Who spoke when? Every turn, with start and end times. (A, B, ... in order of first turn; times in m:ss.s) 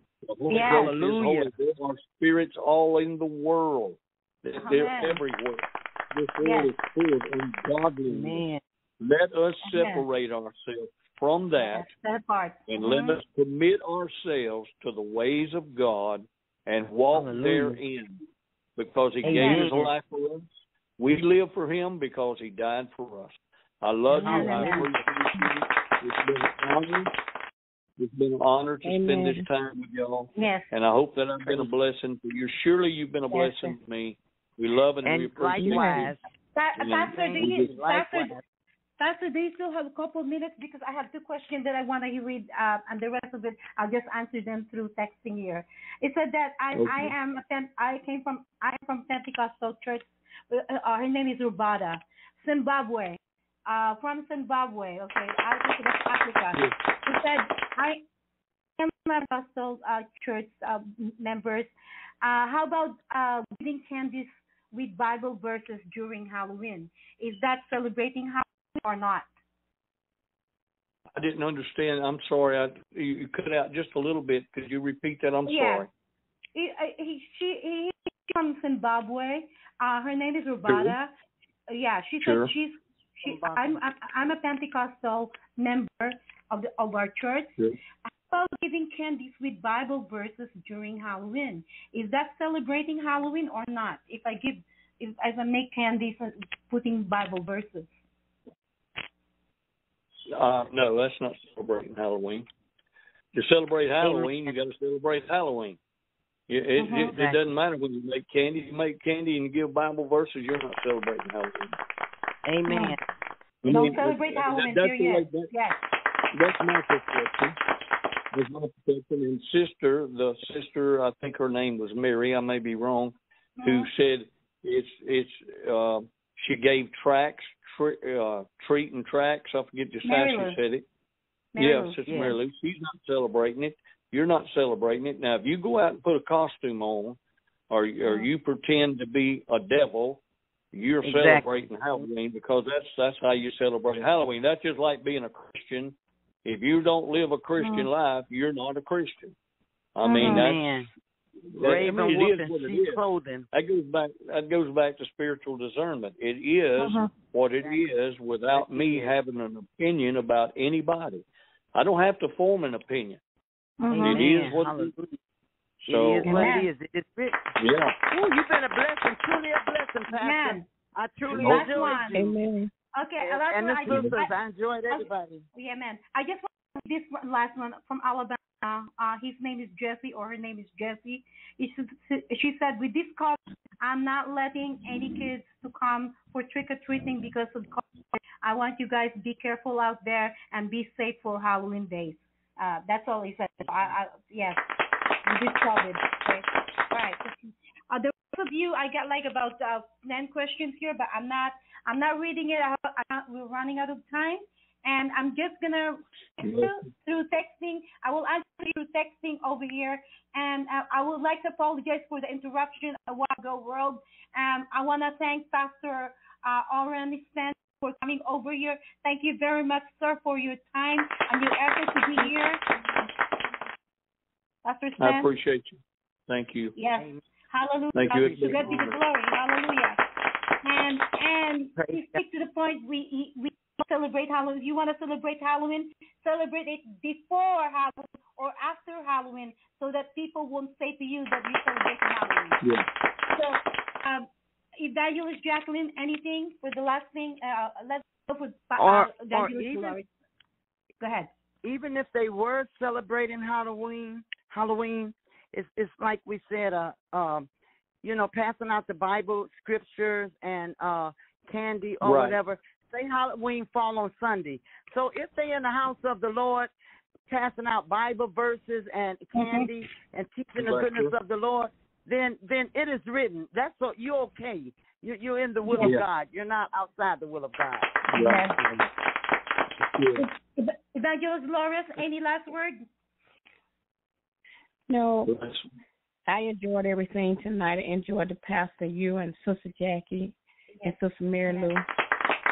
0:00.2-0:08.4 A
0:00.5-0:01.5 B
0:00.5-0:00.9 C
0:04.6-0:05.2 C
0:06.4-0:06.7 C
0:08.1-0:08.6 B
0:09.0-0:11.9 A
0:09.6-0:10.1 C
0:11.6-0:13.2 C
0:12.7-0:18.2 A
0:17.1-0:17.8 B
0:18.8-0:27.1 A
0:19.2-0:19.9 B
0:19.3-0:19.6 C
0:19.3-0:19.6 D
0:24.1-0:24.9 B
0:24.2-0:24.9 C
0:28.0-0:36.1 A
0:28.8-0:29.5 D
0:30.4-0:30.7 C
0:31.4-0:31.7 B
0:35.0-0:36.2 B
0:35.5-0:36.2 D
0:36.6-0:38.3 C
0:36.8-0:37.7 A
0:37.1-0:38.4 B
0:39.0-0:58.0 C
0:46.7-0:47.1 A
0:58.8-1:09.3 C
1:11.2-1:15.9 A
1:15.5-1:15.9 C
1:16.6-1:21.1 C
1:20.7-1:21.0 A
1:21.7-1:27.5 C
1:22.2-1:22.5 A
1:23.2-1:23.8 B
1:28.3-1:37.9 C
1:40.3-1:42.5 A
1:43.3-1:45.8 A
1:44.0-1:44.6 B
1:46.5-1:51.8 A
1:46.8-1:47.1 C
1:47.1-1:47.4 B
1:52.5-1:53.0 B
1:52.7-1:53.0 C
1:53.6-1:55.5 A
1:53.7-1:55.8 C
1:56.3-1:57.6 A
1:58.3-2:10.8 A
2:03.6-2:03.9 C
2:10.0-2:10.6 C
2:11.6-2:12.4 C
2:11.6-2:17.2 A
2:12.1-2:12.4 B
2:17.7-2:20.2 A
2:18.0-2:18.3 C
2:20.7-2:29.4 A
2:21.0-2:22.0 B
2:27.6-2:27.9 C
2:30.0-2:30.6 A
2:30.0-2:30.5 C
2:30.2-2:30.9 B
2:31.5-2:33.0 A
2:31.6-2:33.5 B
2:33.5-2:43.2 A
2:36.8-2:37.1 C
2:38.5-2:39.1 B
2:43.8-2:44.3 C
2:43.9-2:45.2 B
2:44.0-2:44.9 A
2:45.8-2:47.4 B
2:45.8-2:46.6 A
2:46.2-2:46.7 C
2:47.6-2:47.9 A
2:48.1-2:52.4 B
2:50.1-2:50.6 C
2:51.3-2:52.2 C
2:51.3-2:52.2 A
2:52.2-2:52.7 D
2:53.0-2:54.3 C
2:53.2-2:55.4 B
2:53.9-2:54.1 A
2:54.9-3:14.6 C
3:15.3-3:42.6 C
3:26.4-3:26.8 A
3:44.6-3:45.3 C
3:45.0-3:46.7 A
3:46.8-3:50.0 C
3:46.9-3:47.2 B
3:48.0-3:49.0 A
3:48.1-3:49.0 B
3:50.6-4:02.6 C
3:51.8-3:52.2 B
4:03.3-4:10.1 C
4:08.8-4:10.0 B
4:11.0-4:11.3 C
4:11.6-4:17.5 B
4:18.0-4:26.7 B
4:22.0-4:22.4 A
4:27.3-4:38.0 B
4:29.4-4:29.7 C
4:30.6-4:31.1 A
4:35.6-4:36.0 C
4:38.1-4:38.9 A
4:38.2-4:38.6 C
4:39.9-4:40.3 A
4:40.2-4:42.8 C
4:44.9-4:45.3 D
4:45.3-4:45.7 A
4:46.3-4:51.9 D
4:50.8-4:51.7 C